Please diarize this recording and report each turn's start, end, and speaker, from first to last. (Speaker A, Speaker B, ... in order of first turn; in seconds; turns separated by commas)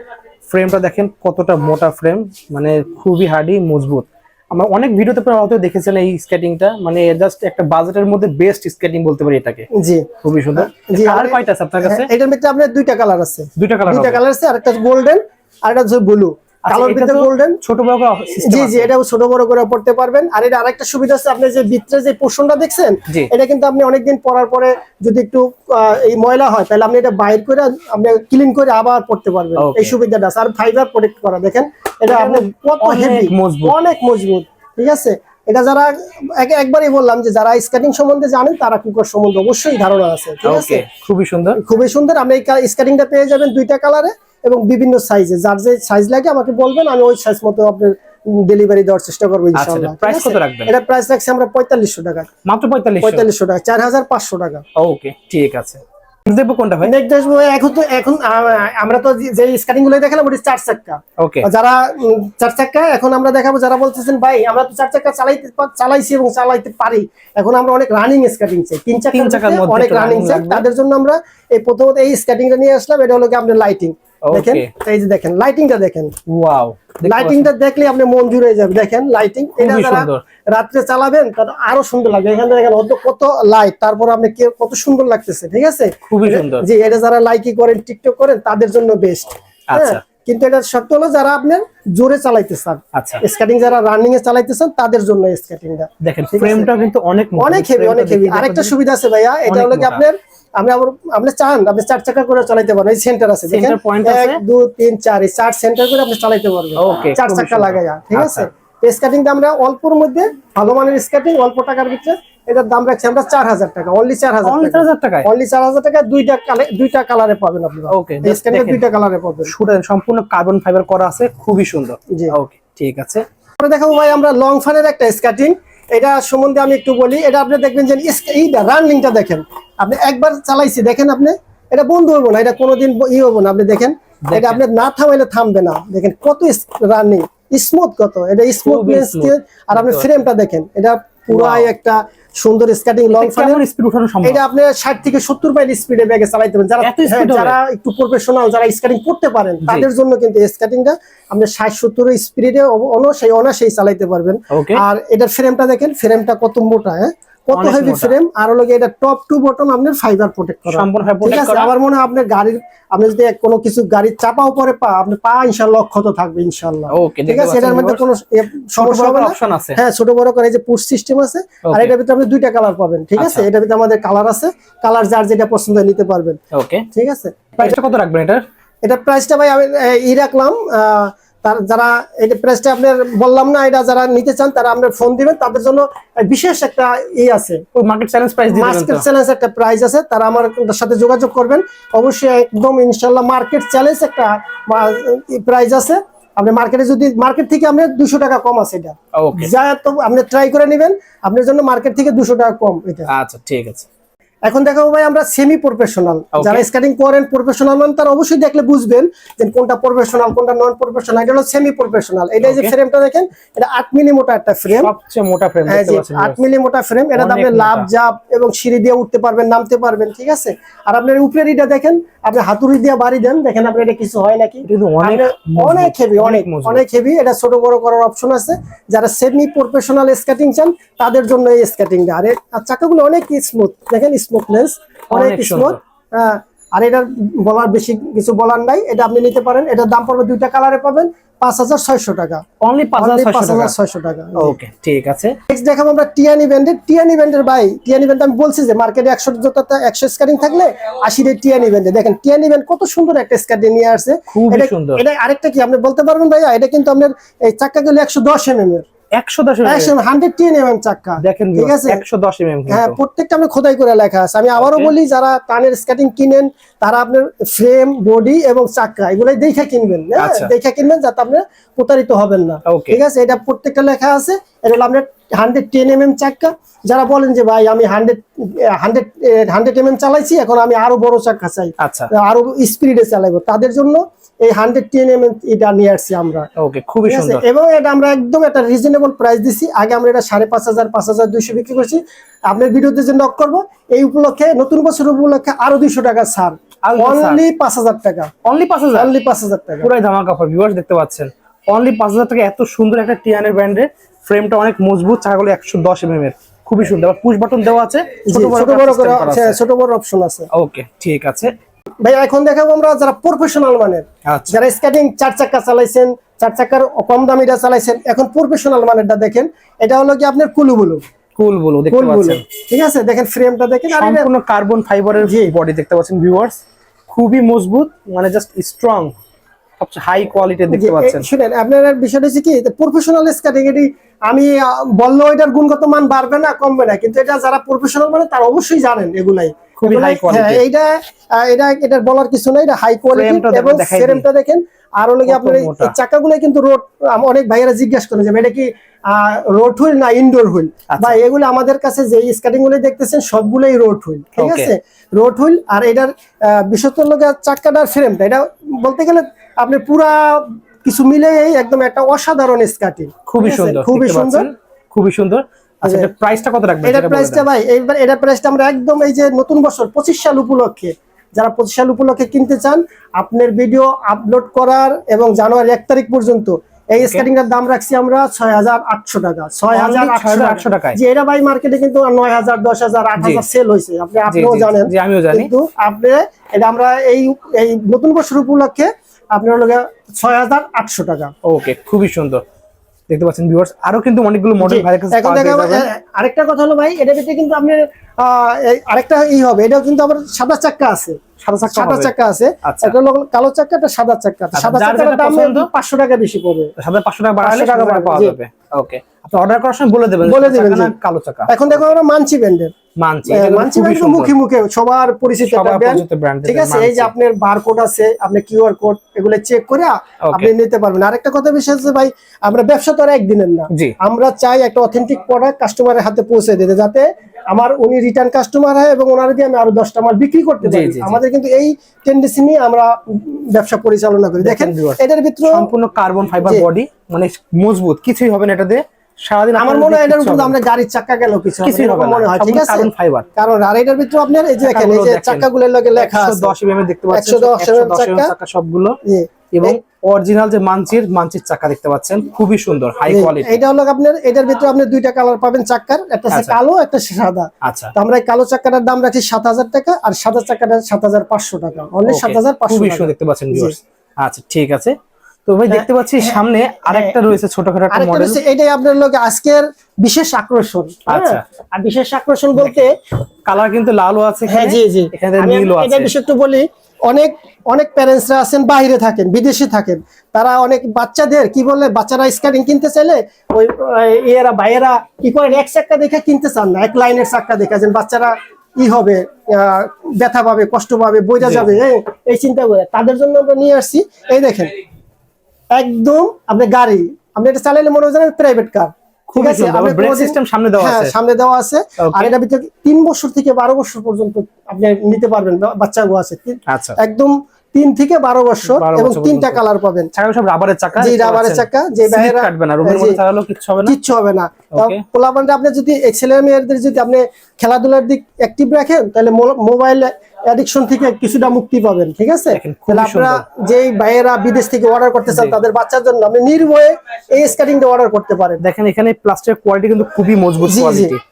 Speaker A: 0.5-9.7, Speaker B: 9.7-17.6, Speaker A: 10.2-12.1, Speaker A: 13.6-14.2, Speaker A: 16.6-18.9, Speaker B: 18.4-40.9, Speaker A: 29.6-29.9, Speaker A: 32.1-33.8, Speaker A: 40.4-41.6, Speaker B: 41.6-52.3, Speaker A: 49.5-50.7, Speaker A: 52.4-53.2, Speaker B: 53.0-54.6, Speaker A: 54.8-56.9, Speaker B: 56.8-76.1, Speaker A: 61.2-61.5, Speaker A: 69.1-70.7, Speaker A: 74.2-74.7, Speaker A: 76.3-77.5, Speaker B: 77.0-96.7, Speaker A: 79.6-80.2, Speaker A: 86.1-86.7, Speaker A: 89.7-90.0, Speaker A: 92.9-93.2, Speaker A: 96.0-98.7, Speaker B: 97.4-119.5, Speaker A: 99.5-100.0, Speaker A: 103.5-104.4, Speaker A: 106.8-108.5, Speaker A: 114.4-115.3, Speaker A: 117.9-118.8, Speaker A: 119.5-123.2, Speaker B: 123.6-143.6, Speaker A: 134.3-134.6, Speaker A: 138.6-140.1, Speaker A: 141.3-141.7, Speaker A: 143.2-144.4, Speaker B: 144.2-176.4, Speaker A: 146.8-147.6, Speaker A: 149.6-149.9, Speaker A: 154.5-154.8, Speaker A: 157.5-158.1, Speaker A: 160.7-161.7, Speaker A: 166.9-168.0, Speaker A: 168.8-169.8, Speaker A: 171.6-171.9, Speaker A: 173.2-173.5, Speaker A: 176.5-176.8, Speaker B: 176.9-177.8, Speaker A: 177.5-178.4, Speaker B: 178.8-187.6, Speaker A: 187.7-189.0, Speaker B: 188.5-203.1, Speaker A: 199.1-199.5, Speaker A: 203.1-203.9, Speaker B: 204.4-214.9, Speaker A: 206.3-206.7, Speaker A: 212.4-212.7, Speaker A: 214.7-216.4, Speaker B: 215.7-242.4, Speaker A: 217.1-217.9, Speaker A: 224.7-226.8, Speaker A: 235.1-235.8, Speaker A: 242.6-243.7, Speaker B: 243.0-244.6, Speaker A: 244.3-245.4, Speaker B: 245.5-258.9, Speaker A: 254.3-255.0, Speaker A: 259.1-259.9, Speaker B: 259.6-262.0, Speaker A: 261.2-263.0, Speaker B: 262.7-286.5, Speaker A: 264.6-264.9, Speaker A: 270.2-270.5, Speaker A: 272.6-273.0, Speaker A: 281.8-282.1, Speaker A: 286.6-287.4, Speaker B: 287.1-298.3, Speaker A: 296.8-297.4, Speaker A: 298.4-299.1, Speaker B: 298.9-299.9, Speaker A: 299.8-309.6, Speaker B: 308.2-310.5, Speaker A: 310.5-311.5, Speaker B: 312.0-321.0, Speaker A: 314.2-314.6, Speaker A: 321.4-322.4, Speaker B: 321.9-324.3, Speaker A: 323.9-329.1, Speaker B: 325.2-325.5, Speaker A: 329.8-331.3, Speaker B: 330.7-364.5, Speaker A: 339.8-340.6, Speaker A: 343.1-344.2, Speaker A: 345.2-345.9, Speaker A: 350.9-351.2, Speaker A: 354.4-354.7, Speaker A: 363.3-367.4, Speaker B: 365.8-366.1, Speaker B: 366.8-391.3, Speaker A: 377.0-377.2, Speaker A: 379.7-381.0, Speaker A: 383.2-383.4, Speaker A: 384.3-385.5, Speaker A: 391.4-392.4, Speaker A: 393.1-395.9, Speaker B: 394.6-406.7, Speaker A: 401.4-402.9, Speaker A: 404.5-405.7, Speaker A: 406.8-411.9, Speaker B: 407.4-408.4, Speaker B: 410.2-410.9, Speaker B: 411.5-412.7, Speaker A: 413.0-414.3, Speaker B: 413.3-435.7, Speaker A: 415.4-417.1, Speaker A: 430.6-431.2, Speaker A: 434.4-440.6, Speaker B: 439.6-446.5, Speaker A: 441.6-443.3, Speaker A: 444.6-449.0, Speaker B: 447.1-448.3, Speaker B: 449.0-449.8, Speaker A: 449.5-453.6, Speaker B: 453.0-463.8, Speaker A: 456.3-456.6, Speaker A: 457.6-457.9, Speaker A: 462.1-464.9, Speaker A: 465.5-468.4, Speaker B: 465.7-467.2, Speaker B: 467.9-472.9, Speaker A: 471.1-471.4, Speaker A: 472.6-472.9, Speaker A: 473.5-476.1, Speaker B: 474.5-494.7, Speaker A: 491.4-491.7, Speaker B: 495.7-510.1, Speaker A: 499.3-501.1, Speaker A: 502.0-502.3, Speaker A: 506.7-507.0, Speaker A: 508.6-514.0, Speaker B: 511.0-513.2, Speaker B: 513.8-528.6, Speaker A: 514.7-515.0, Speaker A: 522.5-523.4, Speaker A: 525.3-525.6, Speaker A: 528.6-531.2, Speaker B: 530.6-531.1